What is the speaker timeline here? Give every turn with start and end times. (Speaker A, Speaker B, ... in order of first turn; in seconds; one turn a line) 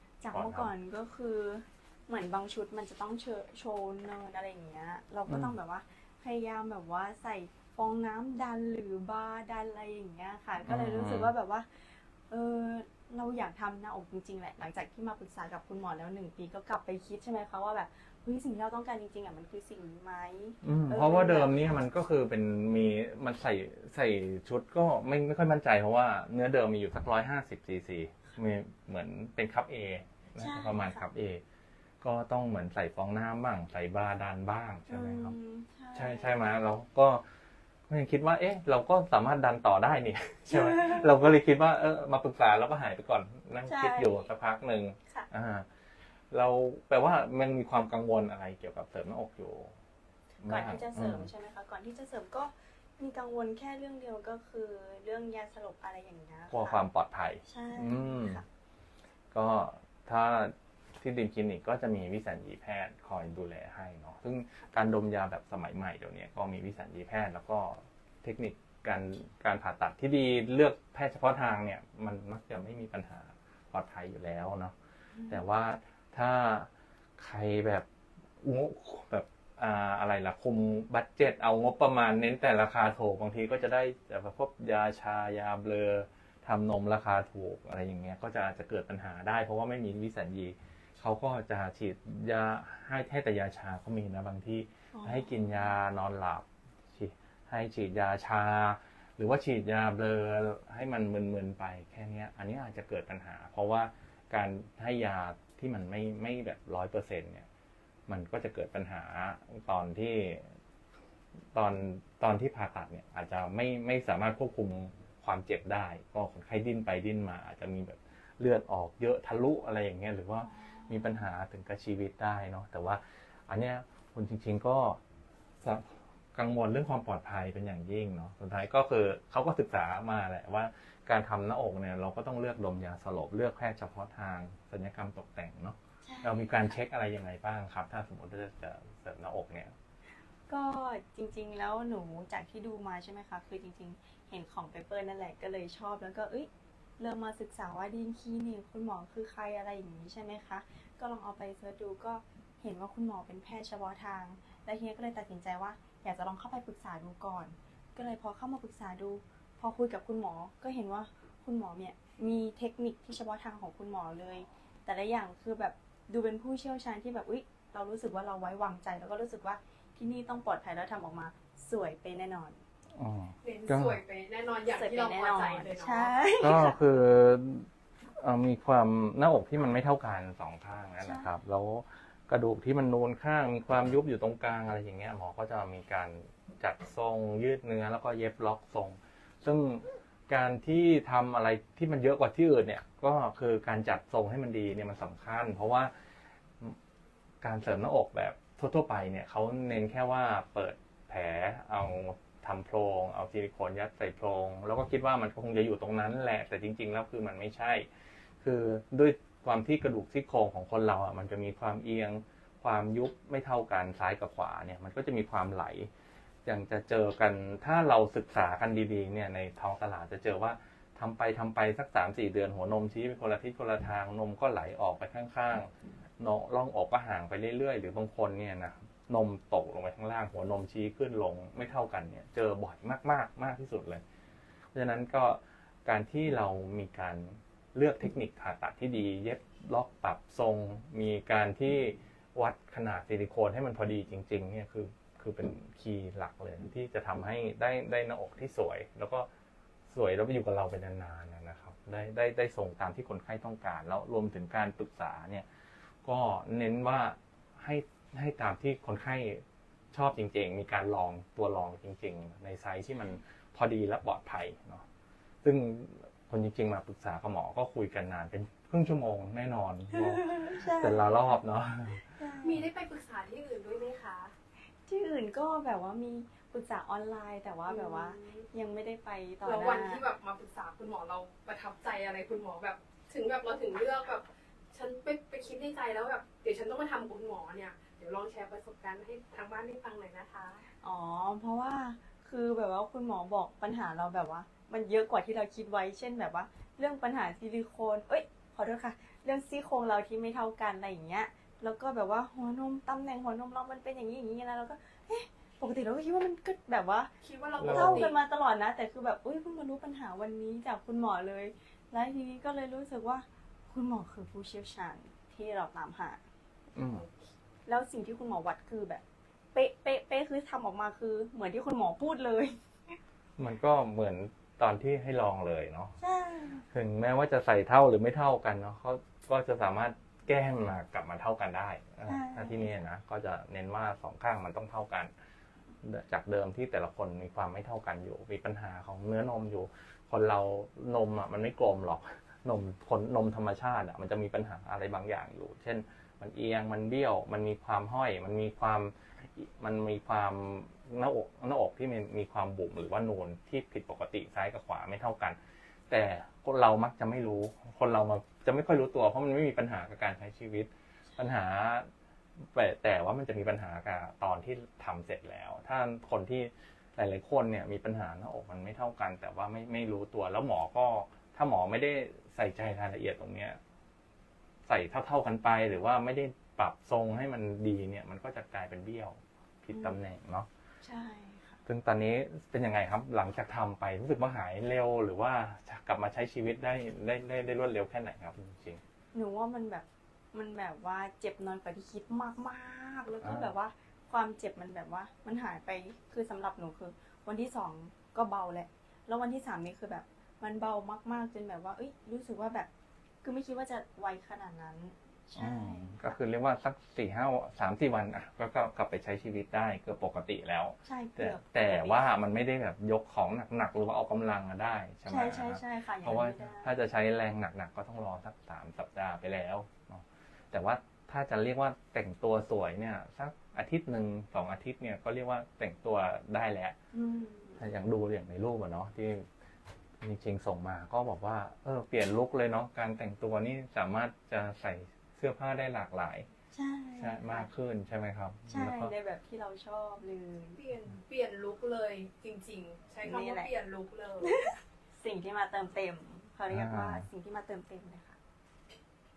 Speaker A: 0.2-21.7
Speaker B: 0.3-0.7
Speaker B: 5.3-5.6
Speaker B: 10.6-11.3
Speaker B: 20.6-31.4
Speaker A: 30.4-31.0
Speaker B: 32.0-35.4
Speaker A: 34.9-36.5
Speaker B: 35.9-37.2
Speaker B: 37.9-45.6
Speaker A: 40.5-41.1
Speaker A: 43.6-44.3
Speaker B: 46.3-49.7
Speaker A: 50.4-56.8
Speaker B: 50.4-51.3
Speaker B: 56.5-58.4
Speaker A: 57.5-58.4
Speaker B: 59.3-74.7
Speaker A: 75.1-75.4
Speaker B: 75.3-77.8
Speaker B: 78.4-107.5
Speaker A: 94.9-95.3
Speaker B: 108.1-110.5
Speaker B: 111.5-125.0
Speaker A: 120.4-121.2
Speaker B: 125.6-139.7
Speaker A: 136.0-136.7
Speaker A: 140.5-172.6
Speaker B: 172.9-174.0
Speaker C: 173.4-176.1
Speaker A: 174.7-176.8
Speaker B: 176.4-195.9
Speaker A: 181.0-181.3
Speaker B: 197.4-207.9
Speaker B: 208.4-215.9
Speaker B: 216.4-234.0
Speaker B: 234.7-249.3
Speaker B: 249.9-255.4
Speaker B: 256.0-264.8
Speaker B: 265.4-272.1
Speaker A: 269.9-271.2
Speaker A: 272.0-272.6
Speaker C: 272.4-274.3
Speaker A: 274.9-280.1
Speaker C: 277.7-278.5
Speaker C: 279.4-290.6
Speaker A: 290.8-307.1
Speaker C: 307.2-308.2
Speaker B: 307.6-308.1
Speaker A: 307.6-316.2
Speaker B: 316.7-317.1
Speaker A: 317.6-323.0
Speaker B: 323.4-325.9
Speaker A: 326.0-326.6
Speaker B: 326.7-335.1
Speaker A: 332.1-332.8
Speaker B: 335.8-355.4
Speaker B: 355.9-361.9
Speaker B: 362.5-373.6
Speaker B: 374.7-380.5
Speaker A: 379.7-380.0
Speaker A: 380.8-381.6
Speaker B: 381.6-388.8
Speaker A: 389.1-402.7
Speaker B: 393.2-393.5
Speaker A: 403.2-406.1
Speaker B: 405.4-426.7
Speaker A: 410.8-412.1
Speaker A: 415.1-416.7
Speaker A: 426.9-427.6
Speaker B: 427.6-429.3
Speaker B: 430.0-436.3
Speaker A: 436.5-437.5
Speaker B: 437.0-438.9
Speaker A: 438.5-440.6
Speaker C: 440.6-444.3
Speaker A: 443.0-443.5
Speaker A: 444.2-448.2
Speaker B: 446.5-447.1